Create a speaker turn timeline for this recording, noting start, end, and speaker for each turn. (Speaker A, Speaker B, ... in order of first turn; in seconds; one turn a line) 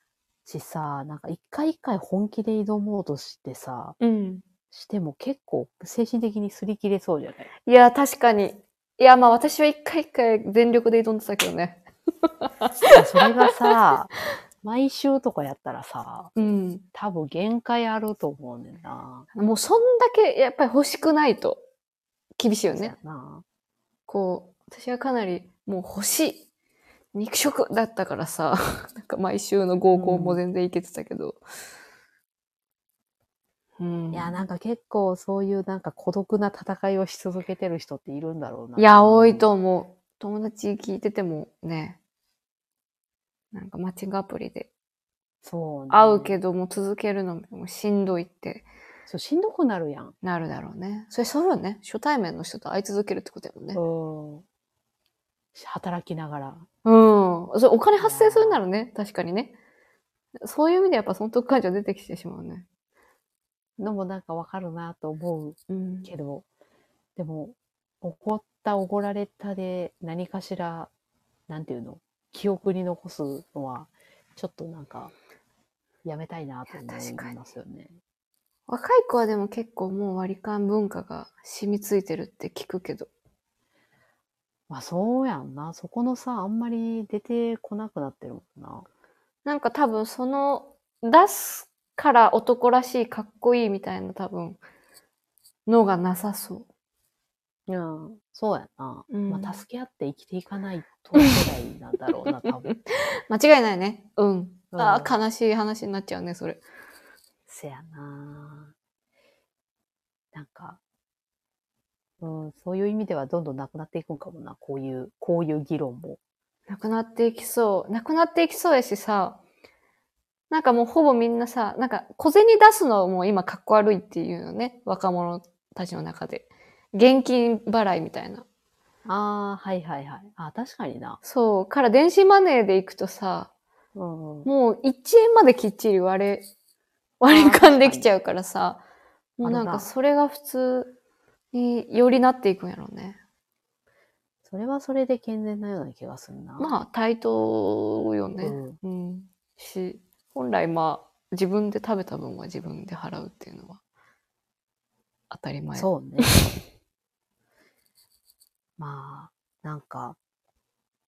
Speaker A: 0.5-4.0
Speaker B: 4.0-4.5
Speaker A: 4.7-7.5
Speaker B: 7.7-11.8
Speaker B: 12.4-13.7
Speaker A: 12.9-16.4
Speaker B: 16.4-16.8
Speaker A: 16.9-19.3
Speaker B: 19.4-21.6
Speaker B: 22.4-22.9
Speaker A: 22.7-23.4
Speaker B: 24.1-26.4
Speaker B: 27.1-31.4
Speaker A: 29.9-30.4
Speaker B: 33.8-34.4
Speaker A: 34.1-39.5
Speaker B: 38.8-42.0
Speaker B: 43.5-44.7
Speaker A: 45.4-46.4
Speaker B: 45.9-48.7
Speaker A: 49.1-50.1
Speaker B: 50.2-53.8
Speaker A: 53.7-54.4
Speaker A: 55.5-56.7
Speaker B: 56.9-59.5
Speaker A: 58.0-58.6
Speaker B: 60.4-62.6
Speaker A: 63.8-66.5
Speaker B: 65.7-66.1
Speaker A: 67.2-70.9
Speaker A: 71.5-75.1
Speaker A: 76.0-78.0
Speaker B: 76.7-77.4
Speaker B: 78.7-83.1
Speaker A: 84.7-88.9
Speaker B: 89.5-94.6
Speaker B: 95.7-96.7
Speaker A: 97.7-102.7
Speaker B: 99.1-99.6
Speaker B: 102.3-106.6
Speaker A: 104.7-105.2
Speaker A: 107.5-108.7
Speaker A: 110.3-110.8
Speaker A: 112.2-116.2
Speaker B: 116.7-119.4
Speaker B: 120.5-128.4
Speaker A: 129.1-131.2
Speaker B: 131.2-133.5
Speaker A: 133.9-134.5
Speaker B: 134.4-136.4
Speaker B: 137.2-138.8
Speaker A: 137.3-138.1
Speaker B: 139.4-140.9
Speaker A: 139.4-139.9
Speaker B: 141.5-143.2
Speaker A: 144.5-146.7
Speaker B: 146.6-153.8
Speaker A: 148.4-148.8
Speaker B: 155.3-156.5
Speaker A: 155.7-156.3
Speaker A: 158.8-160.2